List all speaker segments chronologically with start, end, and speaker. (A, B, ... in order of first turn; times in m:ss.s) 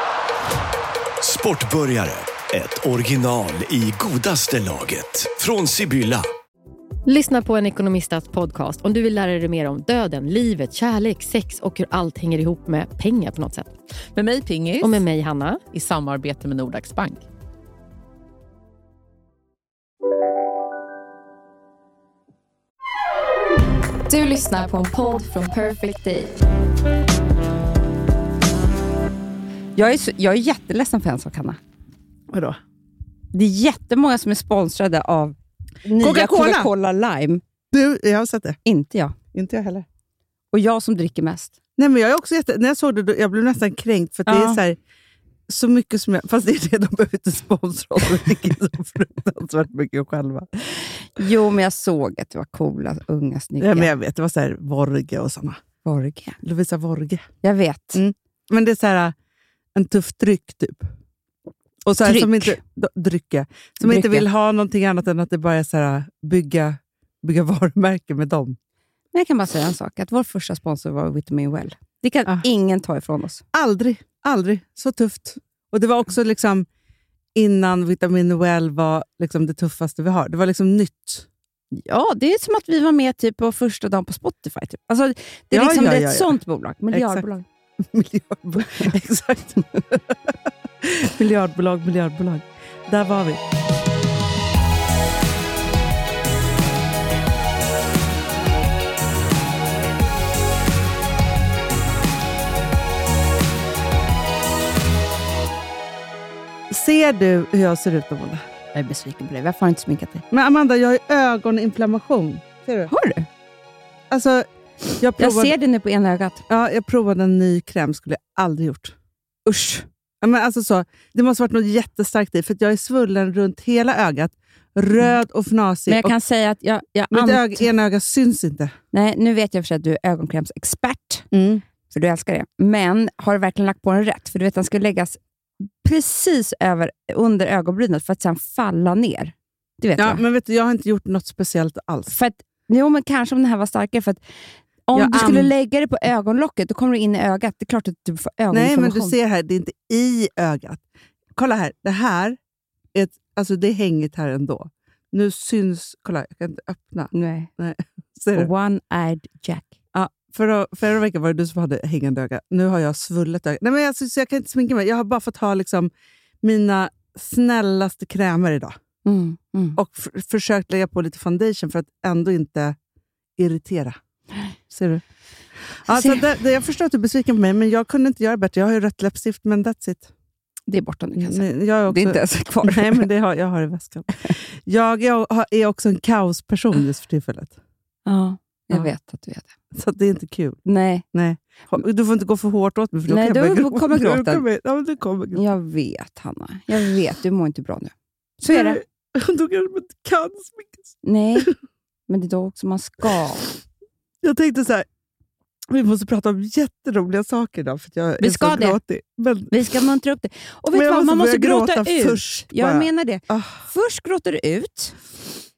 0:01.2-0:06.3 A
0:07.0-0:13.7 B
0:14.1-0:15.0 C
0:14.8-0:15.6 B
0:15.7-0:17.2 C
0:24.1-0:26.3 D
0:29.8-0:31.6 E
0:32.3-0:32.6 F
0:33.3-0:37.4 E
0:36.0-0:36.7 F
0:37.7-0:38.6 F
0:38.6-0:39.2 E
0:39.3-0:39.9 F
0:40.5-0:41.5 E
0:41.8-0:44.8 F
0:44.3-0:44.6 E
0:45.5-0:50.5 F
0:51.2-0:53.9 E
0:53.6-0:55.6 F
0:55.8-0:56.4 E
0:56.4-0:57.3 F
0:57.4-0:58.0 E
0:57.9-0:59.2 F
0:59.8-1:00.9 F
1:01.8-1:08.6 F
1:02.0-1:02.6 E
1:03.8-1:04.3 E
1:09.1-1:13.4 E
1:13.5-1:16.7 F
1:17.3-1:21.3 F
1:21.7-1:27.4 E
1:25.5-1:26.4 F
1:26.9-1:27.2 F
1:27.8-1:30.2 F
1:30.8-1:33.4 F
1:46.7-1:48.4 F
1:48.7-1:50.2 E
1:50.3-1:52.9 F
1:52.9-1:53.3 E
1:54.1-1:54.4 F
1:55.0-1:55.5 F
1:55.2-1:56.4 E
1:56.5-1:58.9 F
1:59.5-1:59.8 E
2:00.2-2:06.1 F
2:05.9-2:07.7 E
2:07.1-2:08.8 F
2:08.9-2:11.3 E
2:11.3-2:11.6 F
2:11.9-2:15.2 E
2:15.8-2:20.2 E
2:20.0-2:22.2 F
2:22.1-2:24.2 E
2:24.9-2:29.2 E
2:24.9-2:25.5 F
2:28.5-2:30.8 F
2:31.3-2:32.4 F
2:32.9-2:38.5 F
2:37.1-2:37.5 E
2:38.3-2:39.7 E
2:39.9-2:45.9 F
2:46.4-2:48.8 F
2:49.0-2:49.8 E
2:49.8-2:52.8 F
2:53.4-2:54.0 F
2:54.7-2:55.0 F
2:55.8-3:00.1 F
2:55.9-2:56.2 E
3:00.7-3:03.1 E
3:01.2-3:07.6 F
3:08.1-3:09.5 E
3:09.7-3:10.6 F
3:10.7-3:11.0 E
3:11.1-3:15.4 F
3:13.1-3:14.4 E
3:15.3-3:18.8 E
3:18.4-3:21.5 F
3:21.0-3:21.5 E
3:22.1-3:23.4 E
3:24.2-3:24.9 F
3:25.7-3:29.6 F
3:28.2-3:28.8 E
3:29.5-3:35.0 E
3:30.7-3:33.6 F